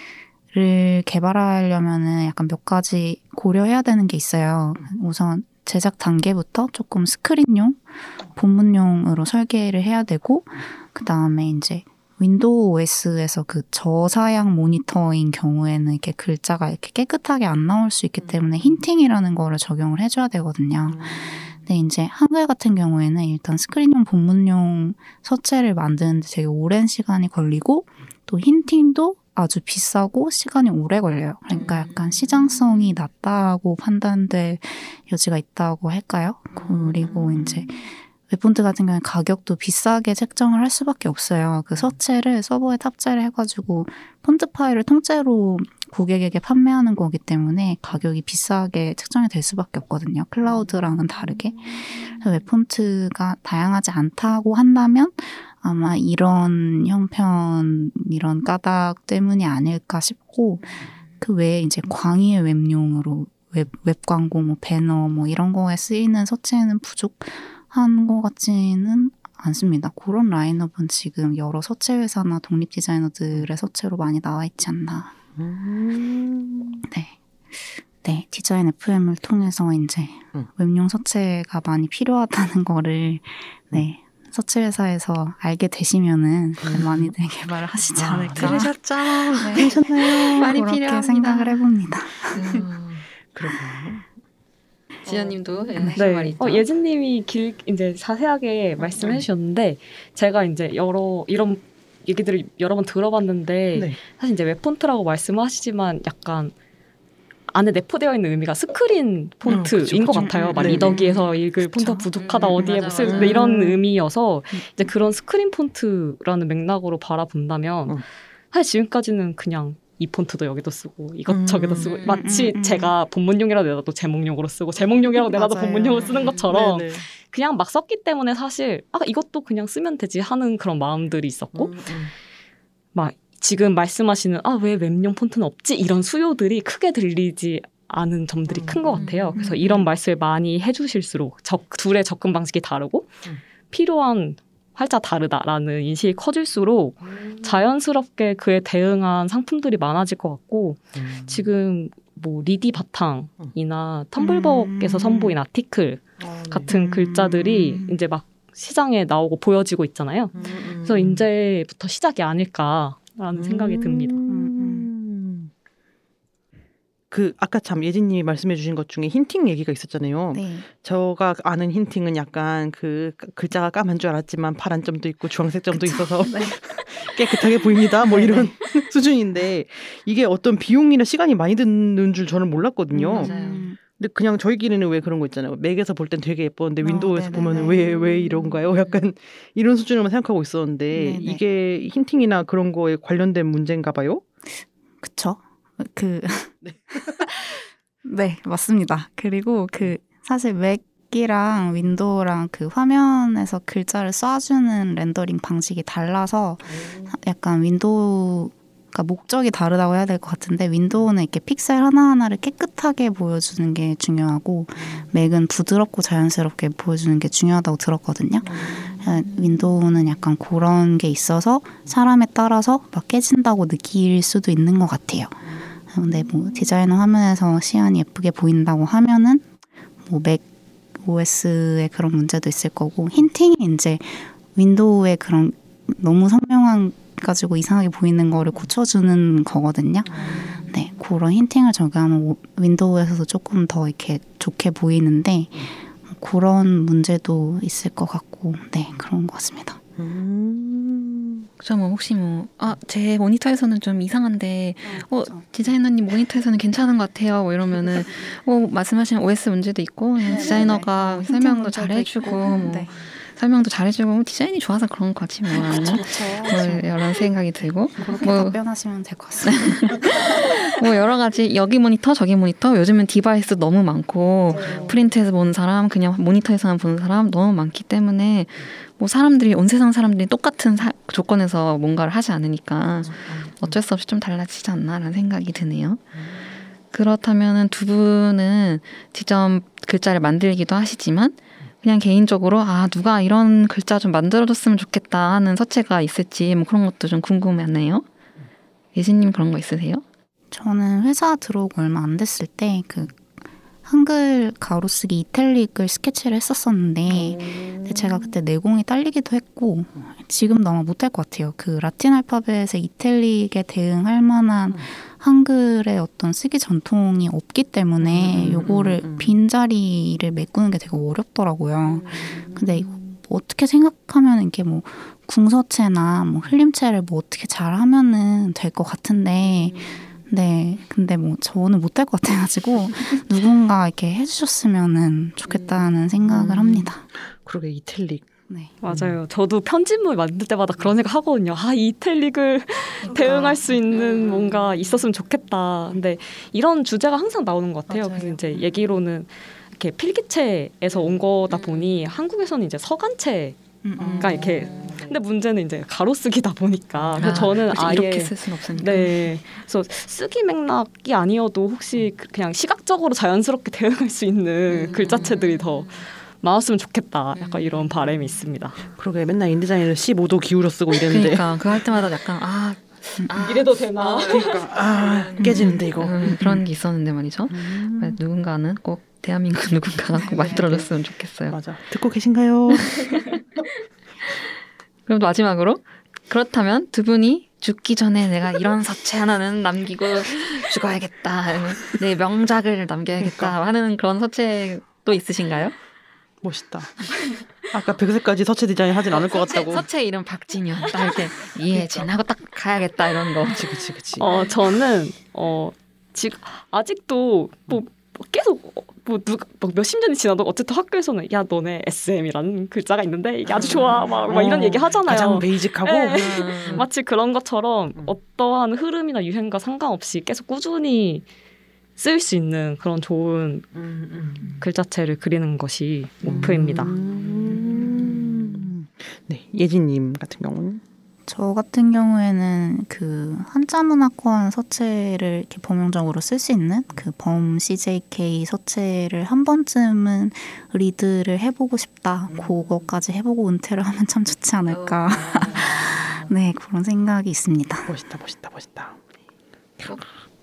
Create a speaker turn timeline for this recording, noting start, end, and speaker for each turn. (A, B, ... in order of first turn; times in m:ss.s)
0:00.5-1:15.2 A
0:20.9-0:21.4 B
0:36.6-0:37.7 B
1:15.4-1:16.9 B
1:16.9-1:28.7 A
1:26.6-1:27.1 B
1:27.9-1:28.7 B
1:28.4-1:31.6 C
1:29.4-1:32.4 A
1:29.5-1:30.5 B
1:32.3-1:33.1 C
1:33.3-1:34.1 B
1:35.0-1:36.7 C
1:36.0-1:46.5 D
1:39.0-1:39.2 B
1:47.5-1:58.0 D
1:49.5-1:51.0 B
1:50.1-1:52.1 A
1:50.7-1:51.2 C
1:52.2-1:53.6 C
1:53.0-1:53.5 B
1:58.5-2:11.8 D
2:01.3-2:02.0 B
2:01.8-2:02.4 C
2:02.1-2:02.9 A
2:05.3-2:06.2 A
2:06.1-2:06.5 C
2:06.4-2:07.1 B
2:11.6-2:12.1 B
2:12.9-2:23.1 D
2:18.5-2:19.1 B
2:18.9-2:19.6 C
2:23.7-2:44.2 D
2:27.0-2:27.5 B
2:31.0-2:31.4 B
2:34.2-2:35.4 A
2:36.2-2:36.8 B
2:36.7-2:37.9 A
2:40.4-2:41.2 B
2:43.4-2:45.5 B
2:44.3-2:44.9 A
2:47.1-3:14.2 B
2:50.3-2:50.7 A
2:55.7-2:56.6 A
2:58.1-2:58.5 A
3:03.0-3:03.7 C
3:03.0-3:03.8 A
3:06.8-3:08.0 A
3:10.9-3:11.4 A
3:15.0-3:49.5 A
3:16.6-3:17.1 B
3:26.7-3:27.1 B
3:38.5-3:39.0 B
3:50.1-3:50.4 A
3:51.0-4:09.8 A
4:00.1-4:00.6 B
4:10.0-4:11.5 B
4:11.6-4:28.6 C
4:20.2-4:22.9 A
4:25.5-4:26.9 A
4:28.0-4:28.3 B
4:28.1-4:30.3 A
4:29.4-4:46.1 C
4:34.6-4:34.9 B
4:43.3-4:43.7 B
4:46.9-4:58.0 C
4:59.0-5:00.0 C
5:00.5-5:03.3 A
5:03.9-5:37.0 A
5:07.2-5:07.9 B
5:18.0-5:19.3 B
5:35.5-5:35.7 C
5:36.2-5:38.3 B
5:38.8-5:53.6 D
5:38.8-5:39.2 B
5:43.2-5:43.6 C
5:48.0-5:48.4 C
5:53.8-5:54.7 A
5:54.0-5:55.1 B
5:54.2-6:08.8 D
5:57.0-5:57.6 B
5:57.2-5:59.3 C
6:04.7-6:06.0 C
6:07.4-6:08.2 C
6:09.0-6:11.5 B
6:11.0-6:21.6 C
6:13.2-6:13.4 A
6:13.4-6:14.6 D
6:14.2-6:16.6 B
6:17.5-6:18.2 B
6:20.1-6:20.9 A
6:21.5-6:23.6 B
6:22.7-6:23.4 C
6:25.1-6:35.8 C
6:33.2-6:33.5 B
6:36.4-6:39.9 B
6:39.1-6:43.7 C
6:41.7-6:42.1 B
6:43.4-6:44.3 B
6:44.2-7:01.3 D
6:44.2-6:44.5 C
6:53.6-6:54.2 C
6:53.6-6:56.8 B
6:56.1-6:56.8 C
7:02.0-7:03.7 D
7:03.8-7:04.5 B
7:04.6-7:06.9 D
7:06.2-7:10.8 B
7:11.3-7:27.9 A
7:27.9-7:29.0 B